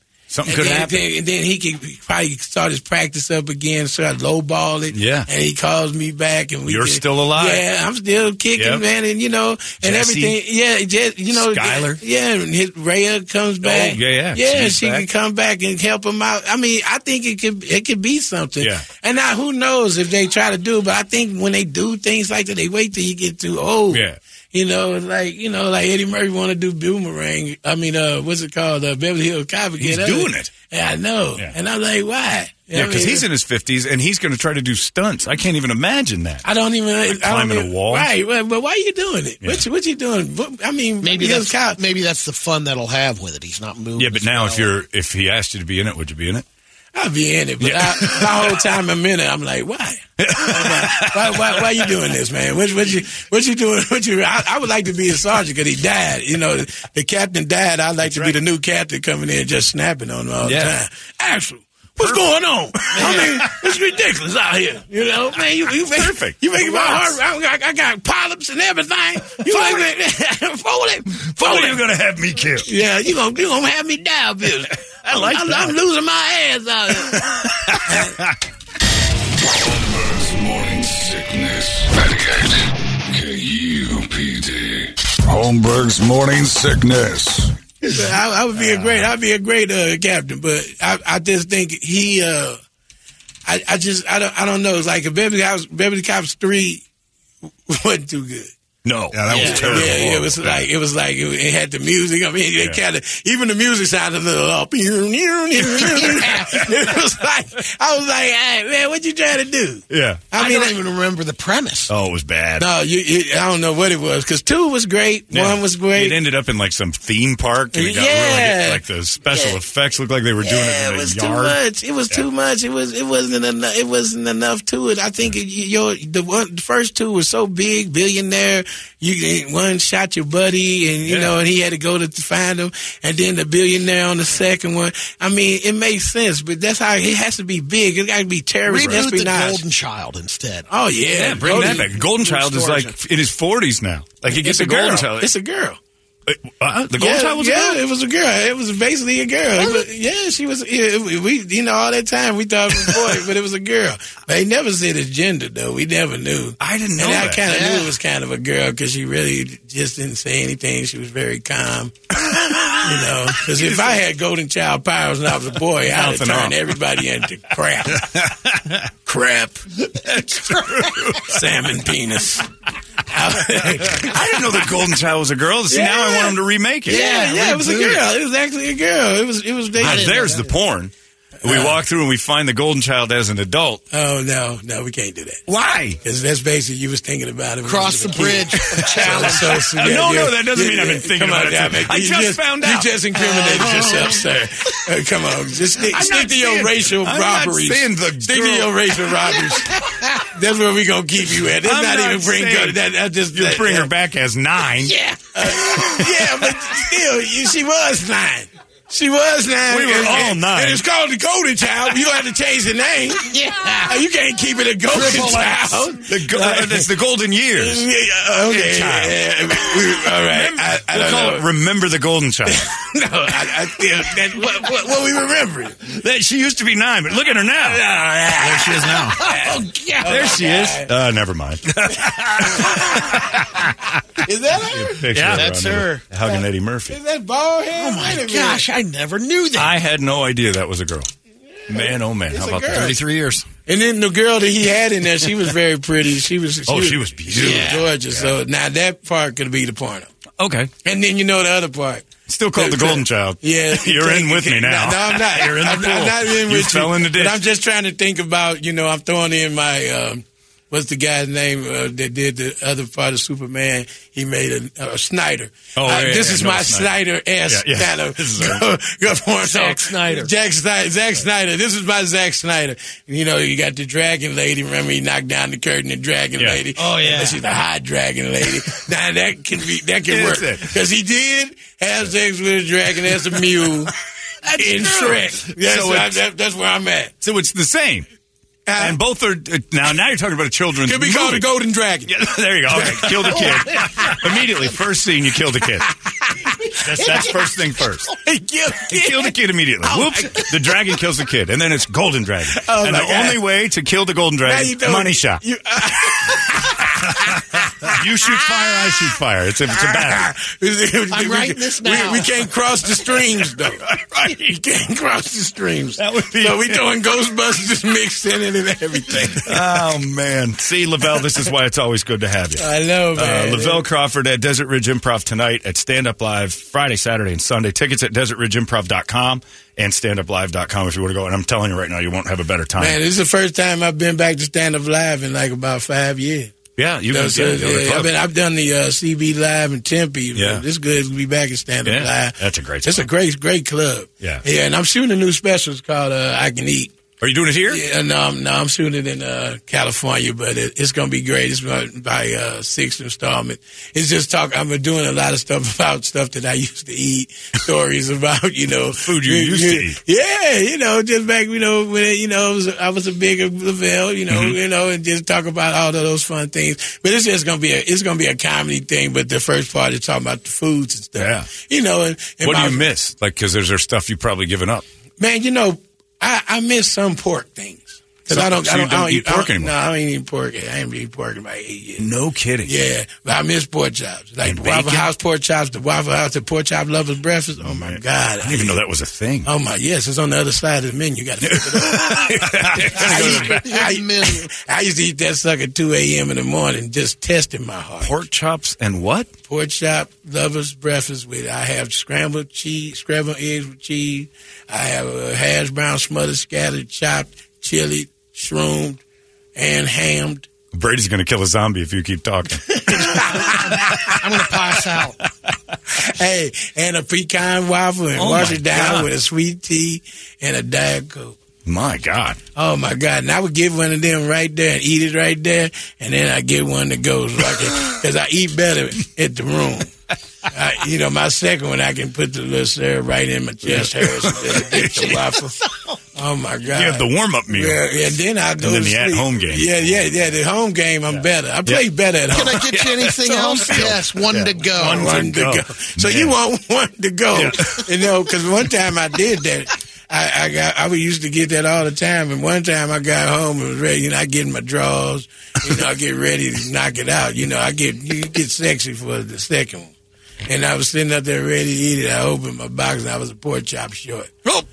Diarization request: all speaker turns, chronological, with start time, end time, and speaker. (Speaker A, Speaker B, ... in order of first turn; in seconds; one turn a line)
Speaker A: 0.3-1.1
Speaker B: 0.5-33.2
Speaker A: 4.9-5.3
Speaker A: 6.7-7.6
Speaker A: 8.6-8.8
Speaker A: 9.8-10.3
Speaker A: 11.3-12.0
Speaker A: 13.6-15.1
Speaker A: 18.6-18.9
Speaker A: 23.9-24.2
Speaker A: 29.8-30.5
Speaker A: 32.7-36.4
Speaker B: 36.4-41.8
Speaker A: 37.1-38.1
Speaker C: 41.0-44.7
Speaker A: 44.0-46.4
Speaker B: 46.9-71.8
Speaker A: 47.6-48.7
Speaker A: 50.2-51.9
Speaker A: 58.0-58.4
Speaker A: 60.4-60.7
Speaker A: 62.0-63.5
Speaker C: 62.9-63.3
Speaker A: 65.7-67.2
Speaker A: 69.4-69.8
Speaker A: 71.3-72.7
Speaker B: 72.7-78.2
Speaker A: 75.0-75.8
Speaker A: 77.1-78.3
Speaker D: 79.4-87.5
Speaker B: 87.8-92.6
Speaker A: 88.6-89.1
Speaker B: 93.5-96.8
Speaker B: 97.7-98.5
Speaker A: 98.8-100.7
Speaker D: 99.1-99.9
Speaker C: 99.3-99.8
Speaker B: 99.3-110.8
Speaker C: 105.6-106.6
Speaker A: 109.9-110.2
Speaker C: 110.3-111.9
Speaker A: 111.9-112.7
Speaker B: 112.6-116.2
Speaker A: 115.3-121.6
Speaker B: 117.7-119.6
Speaker B: 120.4-139.6
Speaker A: 131.1-131.3
Speaker C: 138.7-140.7
Speaker B: 140.7-141.9
Speaker A: 141.1-145.3
Speaker C: 141.4-142.9
Speaker B: 144.3-145.8
Speaker A: 146.3-147.8
Speaker B: 147.0-162.2
Speaker C: 149.6-149.8
Speaker A: 156.6-157.4
Speaker C: 157.4-157.9
Speaker A: 162.3-164.0
Speaker B: 162.8-168.3
Speaker A: 165.9-166.6
Speaker A: 168.1-168.7
Speaker B: 169.0-169.7
Speaker A: 170.1-171.4
Speaker C: 170.3-171.0
Speaker B: 171.2-172.5
Speaker B: 173.1-174.7
Speaker A: 173.9-177.1
Speaker B: 175.7-176.3
Speaker C: 176.9-178.0
Speaker B: 176.9-180.4
Speaker A: 179.8-180.9
Speaker C: 179.8-180.5
Speaker B: 181.4-181.8
Speaker A: 181.4-183.8
Speaker B: 183.9-185.4
Speaker A: 185.5-186.0
Speaker B: 186.0-203.9
Speaker C: 187.6-189.7
Speaker A: 188.6-192.9
Speaker C: 193.2-194.2
Speaker A: 195.8-199.3
Speaker A: 201.6-202.8
Speaker A: 203.3-204.9
Speaker C: 204.9-206.1
Speaker B: 205.3-216.9
Speaker A: 209.7-210.8
Speaker C: 213.2-214.0
Speaker C: 214.9-215.9
Speaker A: 216.0-217.8
Speaker B: 217.6-221.4
Speaker A: 218.4-219.2
Speaker A: 219.8-222.7
Speaker B: 222.5-225.8
Speaker A: 225.8-227.8
Speaker B: 227.6-230.9
Speaker C: 228.4-230.3
Speaker D: 228.7-229.1
Speaker A: 230.0-233.8
Speaker B: 232.1-233.4
Speaker B: 234.2-235.5
Speaker A: 234.7-237.0
Speaker C: 235.1-236.0
Speaker B: 236.2-238.7
Speaker C: 237.7-239.8
Speaker A: 239.6-241.1
Speaker B: 241.7-243.0
Speaker A: 241.7-243.4
Speaker B: 243.7-250.1
Speaker A: 246.7-248.3
Speaker C: 247.4-247.9
Speaker A: 250.4-250.7
Speaker B: 250.8-283.9
Speaker A: 252.3-257.4
Speaker A: 265.8-266.9
Speaker A: 267.5-268.6
Speaker C: 269.4-270.3
Speaker C: 276.8-277.4
Speaker A: 280.1-280.7
Speaker B: 284.5-287.1
Speaker A: 284.6-286.2
Speaker A: 287.2-288.1
Speaker B: 288.6-289.0
Speaker A: 288.8-291.4
Speaker B: 290.8-292.1
Speaker A: 292.1-295.9
Speaker B: 292.7-294.1
Speaker C: 293.3-293.9
Speaker B: 296.1-297.3
Speaker A: 296.8-298.1
Speaker B: 298.2-300.8
Speaker A: 298.9-305.4
Speaker B: 302.6-303.4
Speaker B: 304.4-308.9
Speaker A: 307.8-310.3
Speaker B: 309.7-319.9
Speaker C: 311.1-312.3
Speaker A: 313.8-314.4
Speaker A: 316.0-316.8
Speaker A: 319.4-333.0
Speaker B: 322.6-323.8
Speaker B: 332.8-336.5
Speaker A: 336.8-338.1
Speaker B: 337.1-346.9
Speaker A: 340.3-340.6
Speaker A: 341.8-343.1
Speaker A: 347.2-347.8
Speaker B: 347.7-372.8
Speaker A: 358.9-360.0
Speaker A: 364.3-364.6
Speaker A: 371.2-371.5
Speaker A: 372.4-374.8
Speaker B: 375.2-382.1
Speaker A: 378.3-379.7
Speaker A: 382.0-382.7
Speaker B: 382.6-388.8
Speaker A: 384.4-385.1
Speaker A: 387.6-389.5
Speaker B: 389.4-398.1
Speaker A: 391.4-393.8
Speaker C: 392.9-394.5
Speaker A: 398.0-399.3
Speaker B: 399.5-409.0
Speaker B: 409.5-410.5
Speaker A: 410.7-413.2
Speaker B: 412.7-414.1
Speaker C: 413.4-415.2
Speaker B: 415.9-421.4
Speaker A: 418.1-419.1
Speaker A: 421.6-422.4
Speaker B: 422.5-429.9
Speaker B: 430.5-435.6
Speaker A: 433.6-435.1
Speaker C: 434.7-436.0
Speaker B: 436.1-442.8
Speaker A: 436.7-437.8
Speaker A: 438.6-440.1
Speaker A: 441.1-441.8
Speaker C: 442.3-445.2
Speaker A: 442.6-446.4
Speaker B: 444.7-459.9
Speaker A: 447.3-447.9
Speaker B: 460.4-464.3